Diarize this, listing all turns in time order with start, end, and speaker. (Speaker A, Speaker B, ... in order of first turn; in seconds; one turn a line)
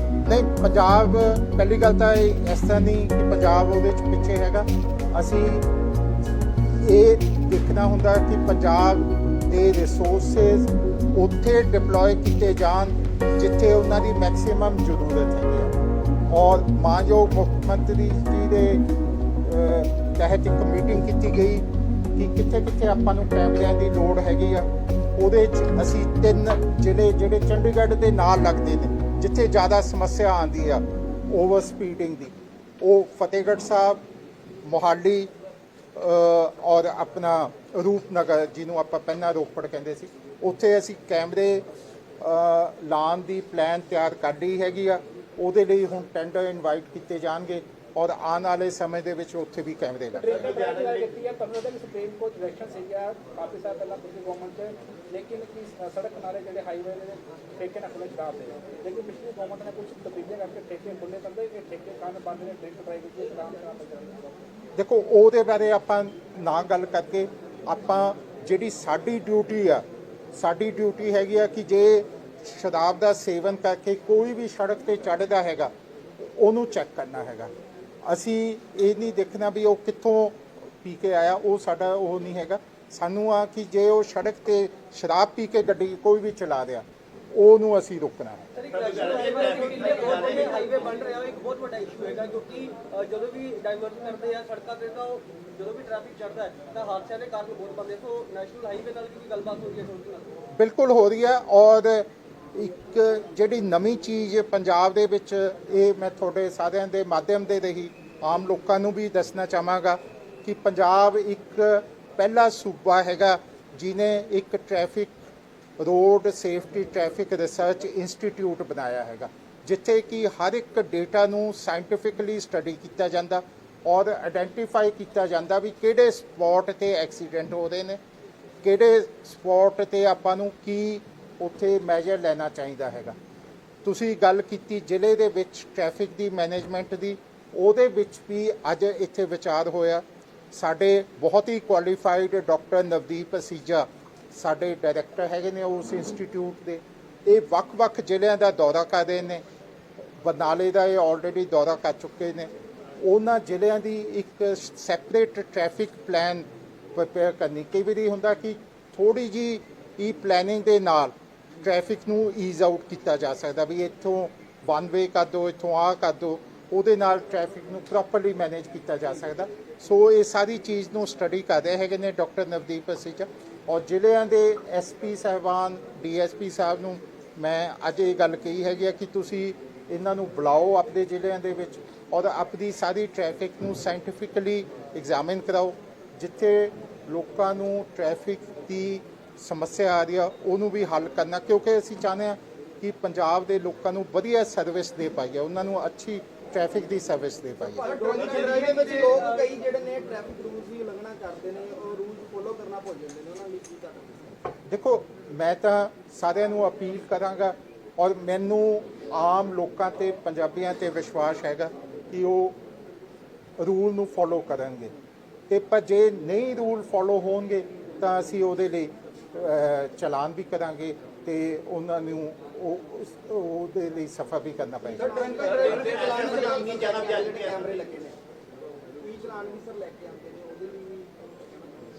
Speaker A: 0.3-5.7
Speaker A: 6.8-15.7
Speaker A: 16.3-18.9
Speaker A: 19.4-21.6
Speaker A: 22.2-34.0
Speaker A: 34.6-35.3
Speaker A: 36.0-41.7
Speaker A: 42.2-50.5
Speaker B: 50.1-64.4
Speaker A: 64.8-77.5
Speaker A: 78.0-88.5
Speaker C: 88.5-100.4
Speaker A: 100.5-115.1
Speaker A: 115.8-128.0
Speaker A: 128.6-133.2
Speaker A: 133.8-149.4
Speaker A: 150.2-197.9
Speaker D: 197.7-204.4
Speaker C: 197.9-199.5
Speaker A: 204.7-212.6
Speaker A: 213.6-214.9
Speaker A: 215.5-225.5
Speaker D: 225.0-228.2
Speaker D: 229.0-231.4